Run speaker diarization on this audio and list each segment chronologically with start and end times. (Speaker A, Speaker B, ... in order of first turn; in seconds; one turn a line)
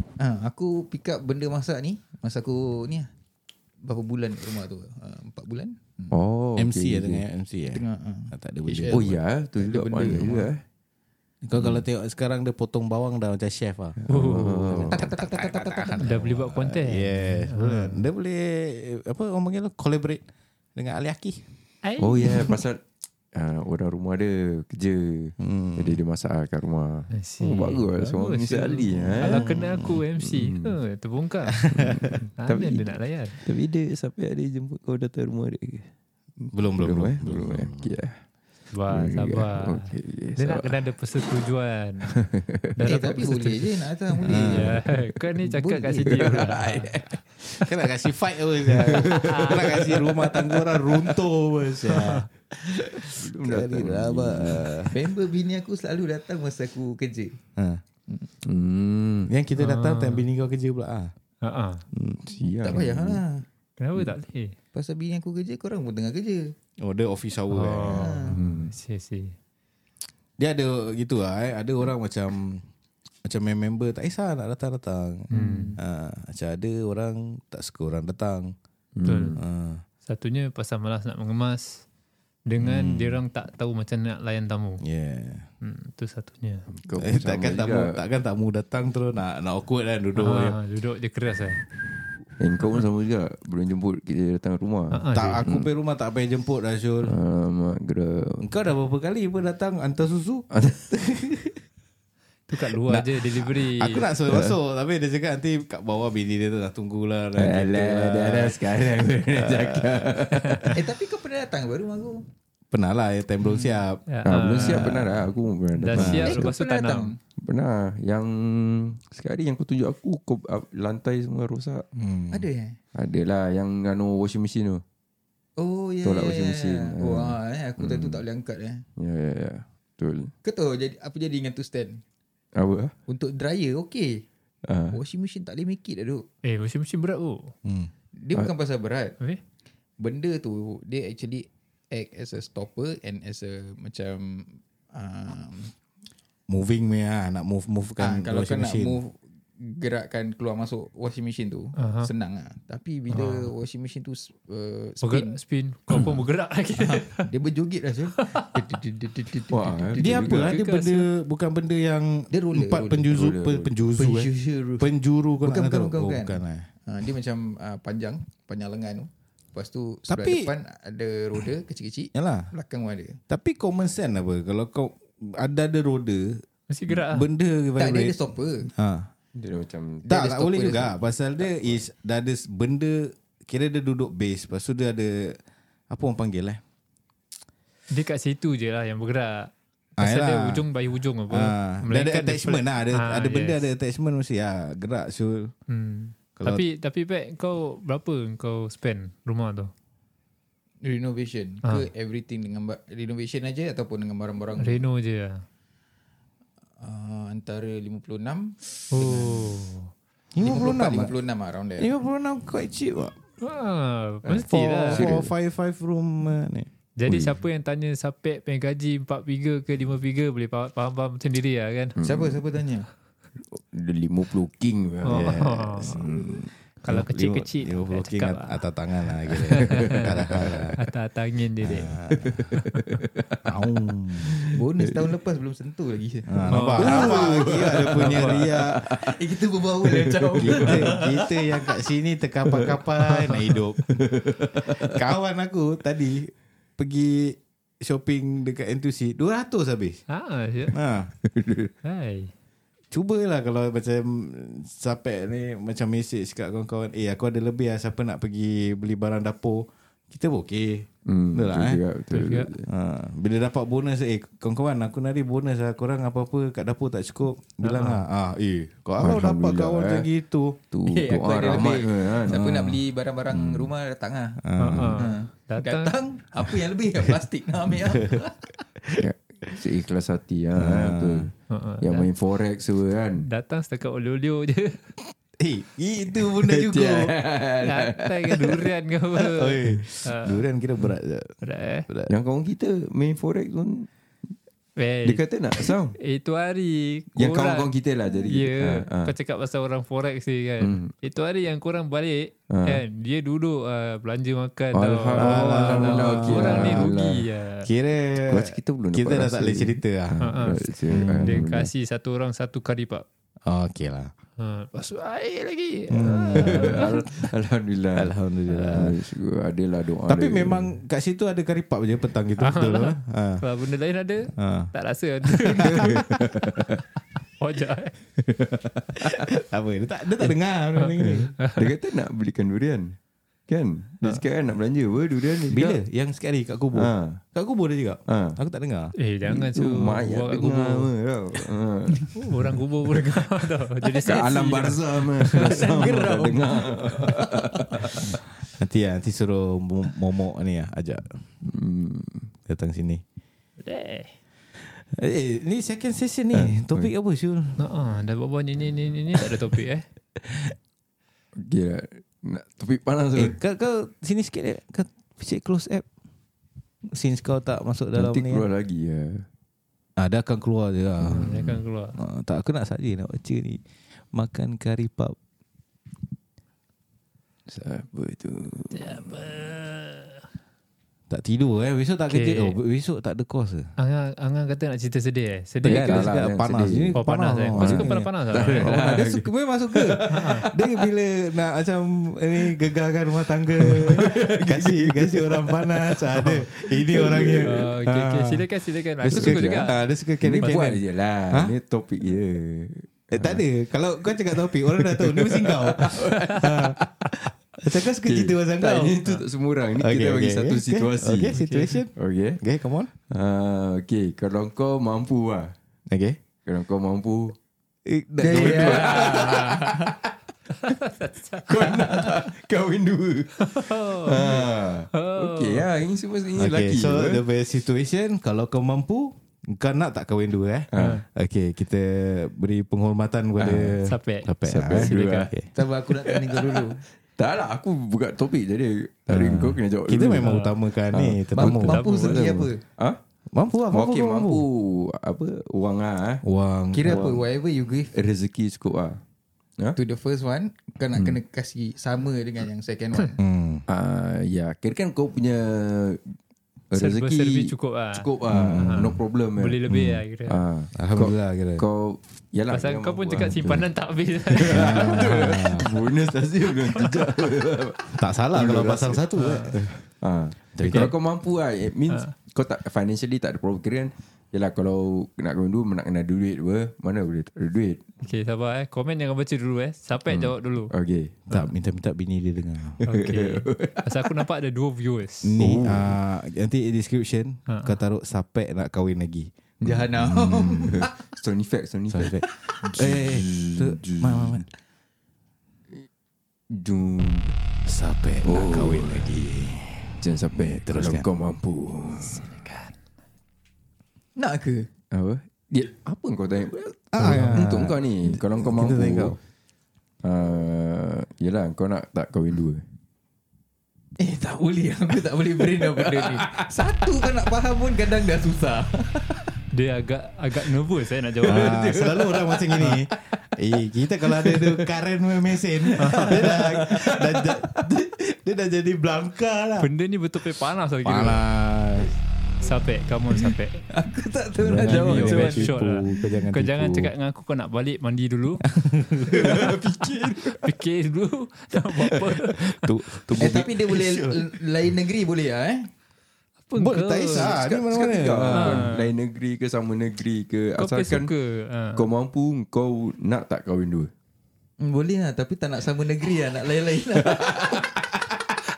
Speaker A: 0.2-3.1
Speaker A: 3.9-6.2
Speaker B: 6.1-7.3
Speaker C: 6.6-9.2
Speaker A: 7.7-10.5
Speaker B: 8.9-10.6
Speaker C: 11.4-14.0
Speaker B: 11.6-11.8
Speaker B: 14.1-15.1
Speaker D: 14.1-14.7
Speaker C: 14.6-20.2
Speaker A: 14.9-16.1
Speaker D: 16.0-18.1
Speaker C: 20.8-21.5
Speaker D: 21.8-22.6
Speaker B: 22.0-22.8
Speaker B: 23.3-29.6
Speaker C: 25.4-26.0
Speaker D: 27.1-31.7
Speaker C: 29.2-30.0
Speaker B: 30.2-30.8
Speaker C: 31.7-32.1
Speaker B: 31.7-35.9
Speaker D: 32.4-33.4
Speaker B: 36.5-38.2
Speaker C: 36.5-37.9
Speaker D: 38.7-42.1
Speaker B: 38.9-40.8
Speaker B: 42.1-43.2
Speaker D: 42.8-43.7
Speaker A: 42.8-44.6
Speaker B: 44.2-45.1
Speaker C: 44.2-44.8
Speaker D: 44.4-47.0
Speaker A: 45.4-46.5
Speaker B: 46.0-47.2
Speaker C: 47.4-55.0
Speaker B: 48.7-51.1
Speaker D: 49.1-49.8
Speaker D: 51.9-52.3
Speaker B: 53.1-54.8
Speaker A: 54.9-57.4
Speaker C: 57.6-57.8
Speaker B: 58.4-59.3
Speaker C: 59.3-61.1
Speaker D: 59.6-60.3
Speaker D: 61.4-61.9
Speaker C: 61.9-62.2
Speaker B: 62.2-63.2
Speaker A: 62.6-63.5
Speaker D: 63.8-64.6
Speaker A: 64.7-66.5
Speaker C: 66.8-68.2
Speaker D: 67.5-69.4
Speaker A: 67.9-68.3
Speaker B: 68.3-68.7
Speaker C: 70.4-72.7
Speaker C: 73.2-78.5
Speaker D: 75.3-75.8
Speaker B: 79.0-79.4
Speaker D: 79.1-79.4
Speaker C: 79.4-79.8
Speaker D: 80.0-81.8
Speaker D: 82.5-84.8
Speaker C: 82.6-83.2
Speaker C: 84.8-85.5
Speaker D: 85.6-86.7
Speaker B: 86.7-88.0
Speaker C: 87.0-90.6
Speaker D: 90.2-91.6
Speaker B: 92.4-95.7
Speaker D: 94.9-95.4
Speaker C: 95.1-97.1
Speaker B: 97.0-98.5
Speaker C: 98.4-100.5
Speaker B: 100.5-101.6
Speaker D: 102.5-104.0
Speaker C: 102.8-110.5
Speaker B: 104.2-104.6
Speaker B: 107.4-110.8
Speaker A: 110.7-112.3
Speaker C: 112.7-115.3
Speaker D: 114.1-114.9
Speaker B: 114.2-116.5
Speaker D: 115.8-117.1
Speaker C: 115.9-116.4
Speaker A: 116.1-117.2
Speaker B: 117.4-121.9
Speaker C: 122.0-122.5
Speaker A: 122.3-122.8
Speaker B: 123.0-124.8
Speaker A: 125.6-128.8
Speaker B: 126.0-128.2
Speaker B: 129.0-130.3
Speaker A: 130.4-132.0
Speaker B: 132.6-132.9
Speaker A: 133.1-134.2
Speaker B: 134.7-135.0
Speaker A: 134.9-136.2
Speaker D: 136.4-137.5
Speaker C: 137.7-137.9
Speaker A: 138.2-139.2
Speaker A: 140.0-145.7
Speaker C: 146.5-149.0
Speaker A: 148.0-155.4
Speaker D: 151.8-152.1
Speaker D: 153.1-153.5
Speaker D: 155.0-157.3
Speaker A: 156.8-160.3
Speaker D: 158.2-158.5
Speaker B: 159.5-160.6
Speaker C: 160.0-166.7
Speaker D: 160.3-161.1
Speaker A: 162.3-163.1
Speaker B: 163.1-163.9
Speaker A: 163.9-164.9
Speaker A: 165.4-173.2
Speaker C: 170.1-170.5
Speaker C: 172.1-172.5
Speaker C: 173.3-178.2
Speaker D: 176.7-177.3
Speaker A: 177.8-178.7
Speaker C: 178.7-179.1
Speaker B: 179.3-180.1
Speaker C: 180.1-185.4
Speaker A: 180.1-181.1
Speaker C: 185.9-186.6
Speaker D: 187.9-193.7
Speaker C: 190.0-190.7
Speaker C: 191.3-195.5
Speaker D: 195.7-199.7
Speaker C: 196.4-196.6
Speaker A: 200.8-204.9
Speaker D: 204.6-205.4
Speaker A: 206.8-209.6
Speaker D: 208.9-209.9
Speaker C: 210.3-211.1
Speaker A: 210.4-211.9
Speaker C: 211.8-213.1
Speaker D: 213.4-215.1
Speaker B: 214.3-215.3
Speaker C: 214.4-216.7
Speaker D: 217.0-222.0
Speaker B: 217.1-217.3
Speaker B: 222.0-222.4
Speaker A: 222.0-222.9
Speaker B: 223.4-226.4
Speaker D: 225.1-226.1
Speaker C: 225.1-230.8
Speaker D: 226.8-228.7
Speaker D: 229.3-231.9
Speaker B: 230.4-230.7
Speaker C: 231.6-232.6
Speaker B: 232.2-233.6
Speaker C: 233.5-234.4
Speaker B: 234.3-235.0
Speaker A: 234.5-241.7
Speaker C: 236.3-238.8
Speaker D: 236.5-237.2
Speaker B: 236.8-239.2
Speaker B: 239.8-241.0
Speaker C: 240.4-250.0
Speaker B: 242.5-243.3
Speaker B: 243.9-244.9
Speaker D: 250.1-250.8
Speaker C: 250.7-251.1
Speaker B: 251.2-251.7
Speaker D: 251.8-252.3
Speaker C: 252.9-261.8
Speaker B: 261.1-262.7
Speaker D: 262.1-262.5
Speaker C: 262.7-270.6
Speaker D: 267.6-268.0
Speaker B: 269.0-270.1
Speaker B: 270.7-272.4
Speaker A: 270.9-278.5
Speaker C: 271.4-272.8
Speaker B: 273.3-273.7
Speaker C: 274.4-275.1
Speaker D: 274.6-275.9
Speaker C: 277.7-278.2
Speaker B: 279.0-283.2
Speaker C: 280.6-281.3
Speaker D: 281.5-282.1
Speaker D: 283.2-284.9
Speaker C: 285.4-287.1
Speaker B: 286.4-288.7
Speaker D: 287.6-290.5
Speaker C: 289.1-292.1
Speaker D: 291.4-291.9
Speaker B: 292.1-294.3
Speaker D: 294.8-295.2
Speaker B: 295.0-296.0
Speaker D: 296.0-297.7
Speaker B: 297.2-299.1
Speaker D: 298.3-307.7
Speaker B: 300.6-300.9
Speaker B: 302.5-302.8
Speaker B: 304.7-307.3
Speaker C: 305.2-306.9
Speaker C: 307.6-310.2
Speaker B: 308.2-311.7
Speaker D: 310.2-313.1
Speaker C: 310.9-311.5
Speaker C: 313.5-314.1
Speaker D: 314.4-317.1
Speaker C: 315.9-317.0
Speaker B: 316.1-320.8
Speaker C: 317.9-319.0
Speaker C: 320.1-323.5
Speaker D: 322.4-325.9
Speaker C: 324.4-324.7
Speaker C: 325.2-326.2
Speaker B: 325.6-326.8
Speaker D: 327.4-327.9
Speaker C: 328.3-331.3
Speaker D: 330.8-331.7
Speaker B: 331.0-333.0
Speaker B: 333.5-335.8
Speaker C: 335.5-338.9
Speaker B: 336.7-337.2
Speaker B: 338.1-338.4
Speaker D: 339.0-340.9
Speaker B: 339.2-342.6
Speaker D: 342.0-345.9
Speaker B: 343.8-348.2
Speaker C: 345.2-351.2
Speaker B: 351.4-352.3
Speaker C: 352.5-353.0
Speaker D: 353.6-354.2
Speaker C: 354.6-357.6
Speaker B: 356.3-356.9
Speaker D: 357.6-359.9
Speaker C: 360.2-360.5
Speaker B: 361.4-363.4
Speaker C: 363.1-365.9
Speaker C: 366.9-368.5
Speaker B: 367.9-369.3
Speaker C: 370.0-375.2
Speaker D: 371.1-372.0
Speaker B: 377.5-379.1
Speaker D: 378.7-380.3
Speaker C: 381.1-383.7
Speaker D: 382.1-382.6
Speaker D: 383.8-386.2
Speaker B: 385.6-387.0
Speaker C: 385.6-388.9
Speaker D: 386.9-388.7
Speaker B: 387.6-389.3
Speaker A: 388.6-390.0
Speaker C: 389.7-400.8
Speaker B: 389.9-390.8
Speaker D: 390.1-390.5
Speaker B: 393.6-397.7
Speaker D: 397.4-399.8
Speaker B: 399.1-403.4
Speaker D: 400.4-400.7
Speaker C: 403.1-409.0
Speaker B: 404.2-406.9
Speaker B: 407.8-411.4
Speaker C: 409.8-412.9
Speaker D: 411.3-411.8
Speaker B: 411.9-412.4
Speaker B: 413.0-415.6
Speaker C: 415.9-416.2
Speaker B: 416.4-417.4
Speaker C: 417.9-419.7
Speaker B: 418.2-420.0
Speaker A: 418.3-418.8
Speaker D: 418.9-419.6
Speaker D: 420.6-422.1
Speaker B: 421.4-427.2
Speaker D: 423.4-425.7
Speaker C: 426.4-435.5
Speaker B: 430.7-431.0
Speaker B: 433.4-433.8
Speaker D: 433.9-435.3
Speaker B: 434.4-435.3
Speaker A: 435.5-436.8
Speaker B: 436.0-440.4
Speaker C: 439.1-442.3
Speaker D: 440.2-440.6
Speaker B: 440.9-441.2
Speaker A: 441.3-442.6
Speaker D: 441.4-442.3
Speaker B: 442.1-443.0
Speaker C: 443.3-444.4
Speaker B: 443.7-446.2
Speaker C: 446.2-447.2
Speaker A: 446.7-448.0
Speaker B: 446.9-447.2
Speaker B: 447.9-449.0
Speaker A: 449.8-453.2
Speaker C: 453.2-453.6
Speaker B: 453.7-456.2
Speaker B: 456.7-459.6
Speaker D: 456.8-460.4
Speaker C: 458.3-459.0
Speaker C: 459.7-460.0
Speaker B: 460.3-463.7
Speaker C: 460.8-461.6
Speaker D: 462.5-465.2
Speaker B: 464.3-469.1
Speaker C: 464.4-465.7
Speaker C: 468.0-469.8
Speaker D: 469.2-469.6
Speaker B: 470.0-477.8
Speaker C: 470.5-471.0
Speaker D: 478.0-480.7
Speaker B: 480.1-481.2
Speaker C: 481.3-482.8
Speaker D: 482.9-485.4
Speaker B: 482.9-484.1
Speaker C: 485.2-489.3
Speaker B: 485.4-486.0
Speaker D: 487.5-487.8
Speaker A: 489.6-491.1
Speaker C: 489.9-490.8
Speaker B: 490.7-494.4
Speaker C: 491.9-494.5
Speaker B: 496.5-497.4
Speaker C: 497.6-501.1
Speaker B: 498.2-499.2
Speaker B: 500.0-502.4
Speaker D: 502.0-502.8
Speaker A: 504.2-504.7
Speaker B: 504.9-509.2
Speaker C: 506.9-509.2
Speaker B: 510.0-512.7
Speaker A: 514.0-519.1
Speaker B: 515.6-516.5
Speaker D: 519.5-521.6
Speaker B: 521.2-523.2
Speaker C: 521.2-529.7
Speaker B: 524.0-527.8
Speaker D: 525.8-526.3
Speaker D: 529.6-531.2
Speaker C: 530.8-531.9
Speaker D: 532.4-533.6
Speaker A: 533.9-534.9
Speaker C: 534.3-536.9
Speaker B: 534.4-535.6
Speaker D: 534.6-538.4
Speaker C: 538.5-539.6
Speaker B: 538.9-540.5
Speaker D: 540.4-542.5
Speaker B: 541.9-542.2
Speaker C: 542.4-544.2
Speaker B: 542.9-543.5
Speaker A: 543.2-545.7
Speaker D: 546.5-547.4
Speaker C: 546.5-548.7
Speaker B: 547.1-551.1
Speaker D: 548.3-548.9
Speaker D: 550.6-551.8
Speaker B: 551.8-553.9
Speaker A: 554.6-557.7
Speaker B: 557.0-558.3